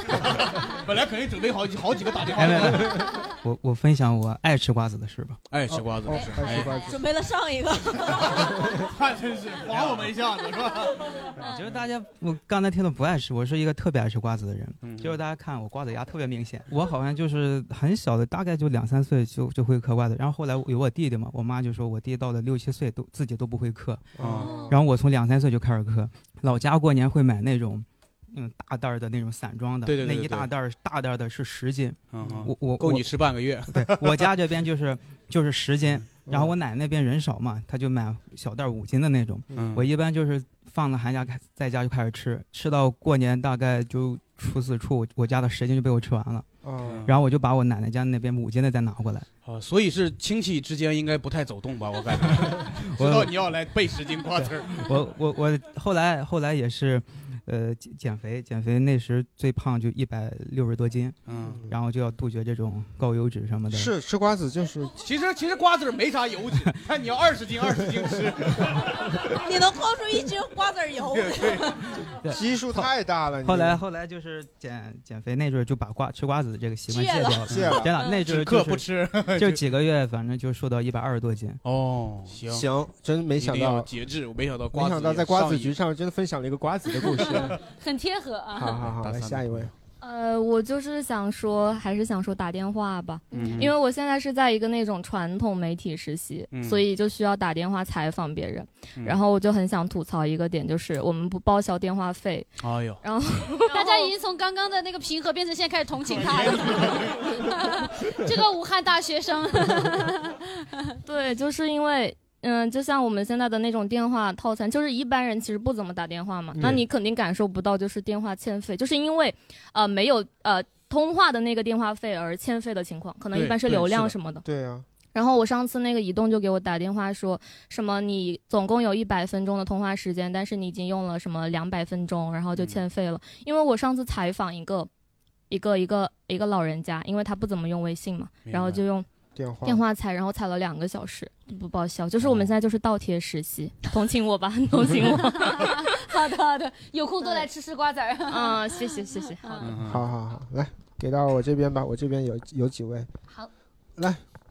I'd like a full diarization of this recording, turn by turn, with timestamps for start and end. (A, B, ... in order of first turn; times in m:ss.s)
0:00.2-0:03.0 A
0:02.4-0:05.4 B
0:05.5-0:06.7 A
0:05.7-0:06.9 C
0:06.1-0:07.0 D
0:06.7-0:08.5 E
0:08.2-0:11.1 A
0:11.4-0:24.2 B
0:14.8-0:15.2 A
0:24.2-0:24.7 C
0:24.2-0:24.7 A
0:24.7-0:46.5 B
0:29.8-0:30.5 A
0:32.1-0:34.3 A
0:36.3-0:36.5 C
0:39.5-0:39.8 A
0:46.6-0:47.0 C
0:46.8-0:47.1 A
0:47.0-0:49.3 B
0:49.4-0:54.9 A
0:53.0-0:53.3 B
0:54.7-1:03.9 B
1:01.3-1:01.6 A
1:03.7-1:05.0 C
1:05.0-1:08.8 A
1:09.3-1:11.7 E
1:11.1-1:11.7 A
1:12.2-1:12.9 B
1:12.3-1:13.8 C
1:13.4-1:21.6 B
1:16.9-1:17.4 E
1:17.5-1:17.9 C
1:17.5-1:19.6 A
1:21.6-1:22.7 A
1:22.5-1:23.9 C
1:23.4-1:25.7 A
1:24.7-1:27.6 C
1:27.2-1:27.6 A
1:27.7-1:28.8 D
1:28.6-1:29.7 C
1:28.8-1:29.7 A
1:30.0-1:42.5 F
1:33.3-1:33.7 A
1:36.5-1:36.8 A
1:42.6-1:43.0 A
1:43.0-1:43.6 F
1:43.7-1:51.0 D
1:46.0-1:47.4 A
1:51.0-2:04.4 F
2:03.3-2:04.1 A
2:04.4-2:04.9 C
2:05.1-2:14.9 F
2:12.6-2:12.8 A
2:15.5-2:19.1 F
2:18.5-2:18.8 A
2:19.4-2:19.8 C
2:19.6-2:25.8 F
2:22.2-2:22.5 A
2:25.3-2:29.8 D
2:28.3-2:29.6 F
2:29.6-2:30.1 A
2:29.8-2:33.1 C
2:34.0-2:34.2 C